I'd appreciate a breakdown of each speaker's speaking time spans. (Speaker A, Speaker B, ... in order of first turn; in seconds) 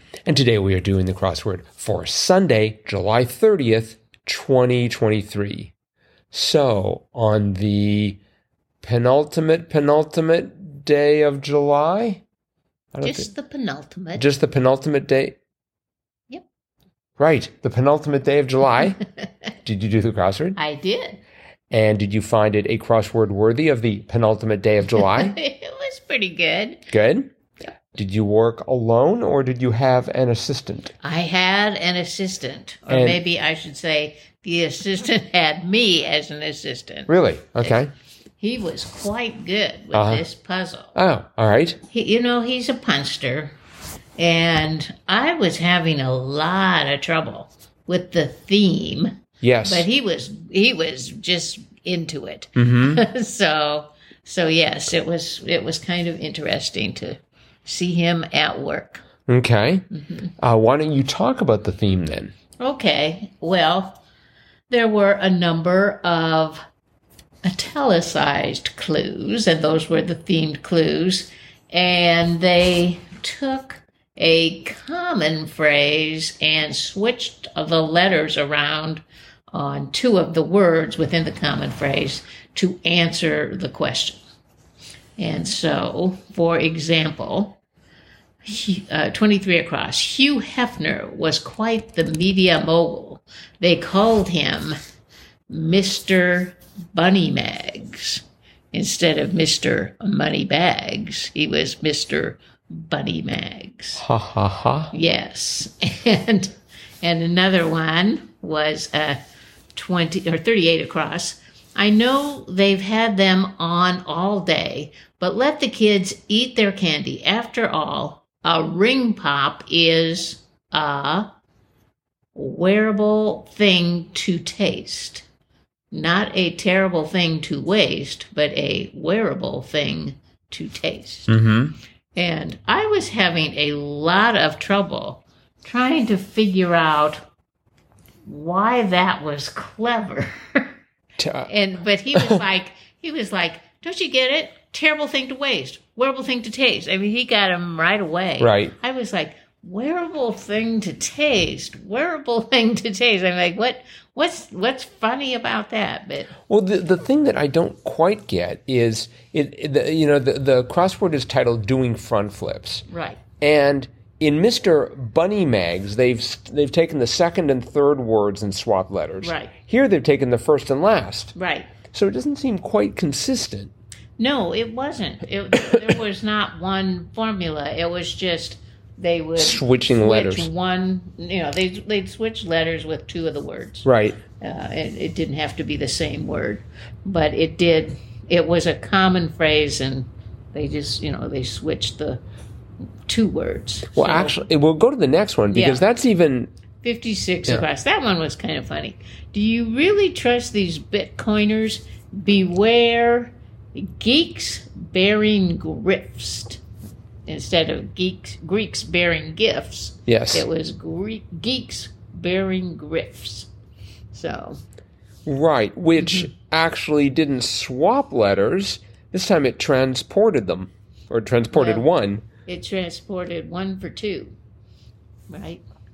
Speaker A: 0.3-5.7, 6.3-8.2, 8.8-12.2, 12.9-13.3, 14.2-15.4, 17.2-19.0, 19.6-20.6, 21.7-25.4, 26.9-27.3, 27.9-30.9, 32.9-33.2, 37.1-37.9, 39.9-40.2, 41.0-41.8, 49.4-49.9, 52.6-53.0, 59.3-59.9, 60.4-62.3, 104.0-104.9, 131.3-131.8, 141.2-141.5, 142.1-142.4, 148.4-148.7, 156.5-162.8, 163.4-171.3, 171.9-173.7, 179.4-180.5, 183.8-184.2, 193.9-196.5, 210.1-210.4, 215.3-222.3
Speaker B: 13.0-14.3, 20.6-21.2, 25.0-26.9, 31.0-37.8, 38.4-40.9, 41.9-43.6, 44.2-59.0, 59.9-60.3, 62.6-64.0, 64.7-66.6, 67.4-84.2, 85.2-87.6, 88.4-94.8, 95.5-104.0, 104.9-109.2, 109.8-121.3, 122.3-125.3, 125.9-131.3, 132.2-137.3, 138.3-140.7, 141.5-156.3, 162.9-163.2, 169.2-169.6, 171.3-171.8, 174.2-183.9, 184.4-192.2, 193.1-194.4, 195.5-195.8, 196.8-206.6, 207.3-213.5, 214.1-214.6, 216.0-216.3, 221.5-221.9, 222.5-224.4, 225.3-225.6